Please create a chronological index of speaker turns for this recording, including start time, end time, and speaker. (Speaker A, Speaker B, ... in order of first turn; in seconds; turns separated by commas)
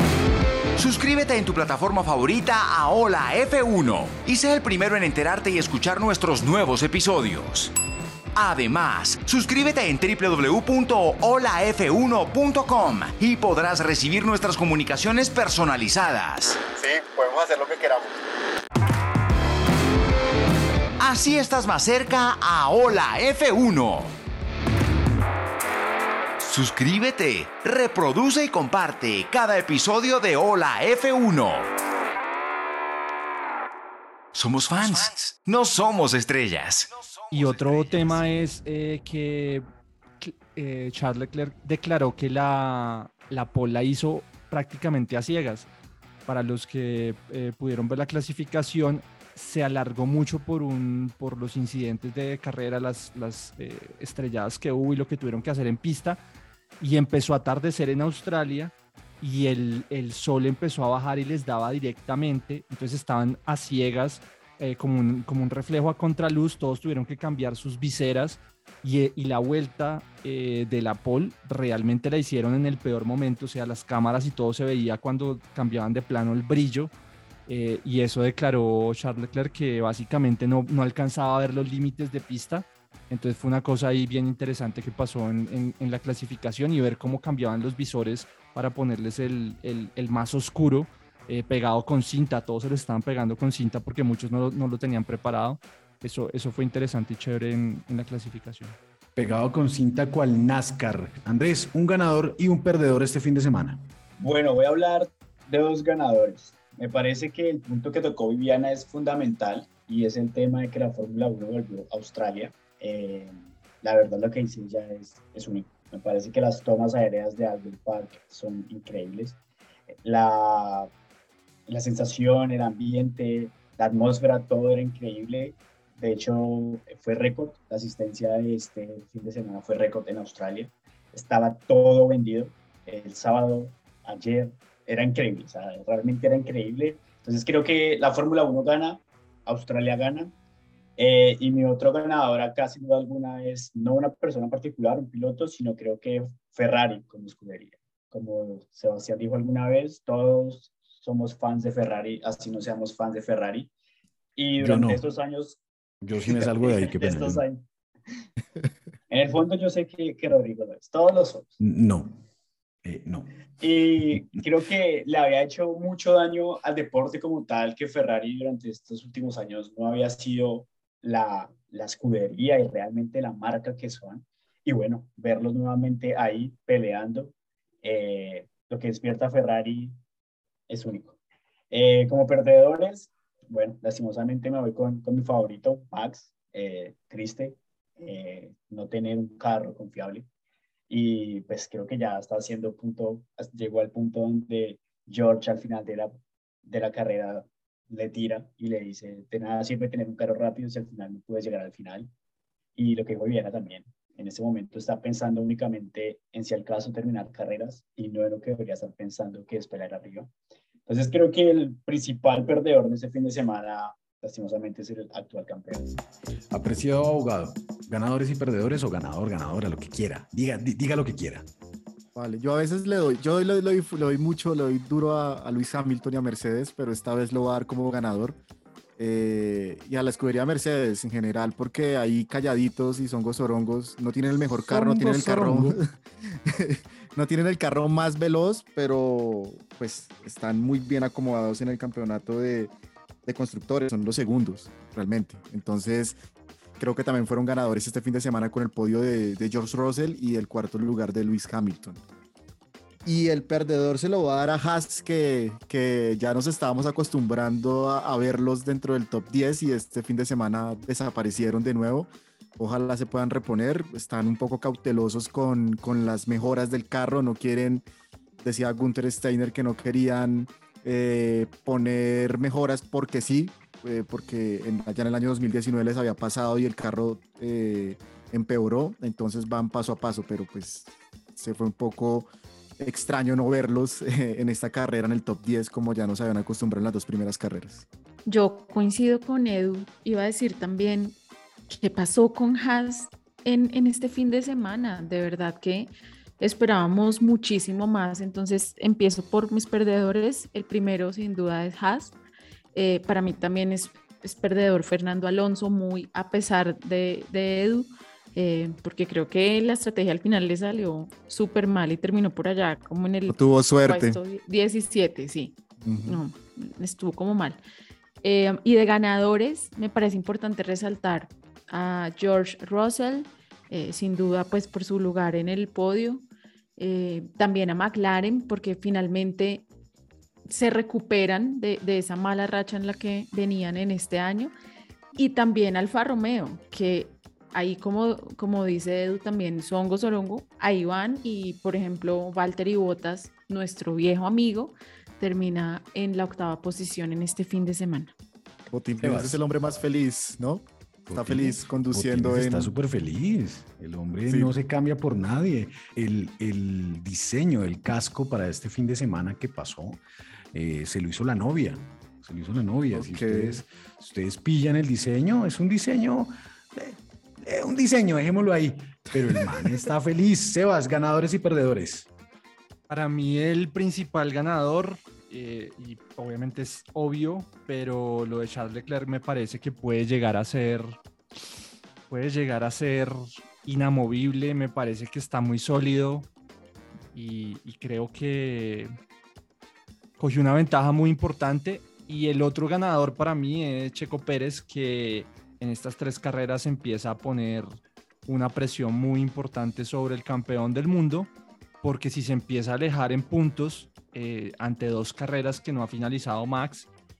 Speaker A: 0.8-7.7, Speaker A: 8.3-16.6, Speaker B: 16.8-18.2, Speaker A: 21.0-24.1, Speaker A: 26.4-31.7, Speaker A: 34.3-38.4, Speaker C: 37.3-39.7, Speaker C: 40.2-45.7, Speaker C: 46.3-56.2, Speaker C: 56.8-76.9, Speaker C: 77.5-98.8, Speaker D: 99.2-103.8, Speaker E: 104.2-119.4, Speaker E: 120.0-120.9, Speaker E: 121.7-140.3, Speaker E: 141.0-153.7, Speaker E: 154.4-155.6, Speaker D: 154.6-155.0, Speaker D: 156.0-157.4, Speaker E: 156.2-157.6, Speaker E: 159.1-161.5, Speaker D: 161.6-162.2, Speaker D: 162.8-163.4, Speaker E: 163.6-180.0, Speaker D: 164.0-164.4, Speaker E: 180.7-181.2, Speaker E: 181.7-190.3, Speaker E: 190.9-196.1, Speaker E: 196.7-202.1, Speaker E: 202.8-210.3, Speaker E: 210.9-216.0, Speaker D: 216.5-221.5, Speaker B: 222.2-228.4, Speaker B: 229.0-242.7, Speaker D: 234.6-235.8, Speaker B: 243.2-246.2, Speaker B: 246.8-252.0, Speaker B: 253.1-267.9, Speaker B: 268.4-282.3, Speaker B: 282.8-287.9, Speaker F: 288.3-291.2, Speaker F: 291.7-302.1, Speaker F: 302.7-315.6, Speaker B: 313.3-314.2, Speaker B: 315.8-316.2, Speaker F: 316.1-317.6, Speaker F: 318.2-326.2, Speaker F: 326.8-329.7, Speaker F: 330.5-334.5, Speaker F: 335.2-348.1, Speaker B: 348.7-352.7, Speaker D: 349.0-349.4, Speaker D: 351.1-360.0, Speaker B: 354.3-354.5, Speaker D: 360.5-372.1, Speaker B: 362.9-363.6, Speaker C: 372.9-380.9, Speaker C: 382.1-386.3, Speaker C: 387.1-388.9, Speaker C: 390.2-397.8, Speaker C: 398.3-401.3, Speaker C: 401.8-406.9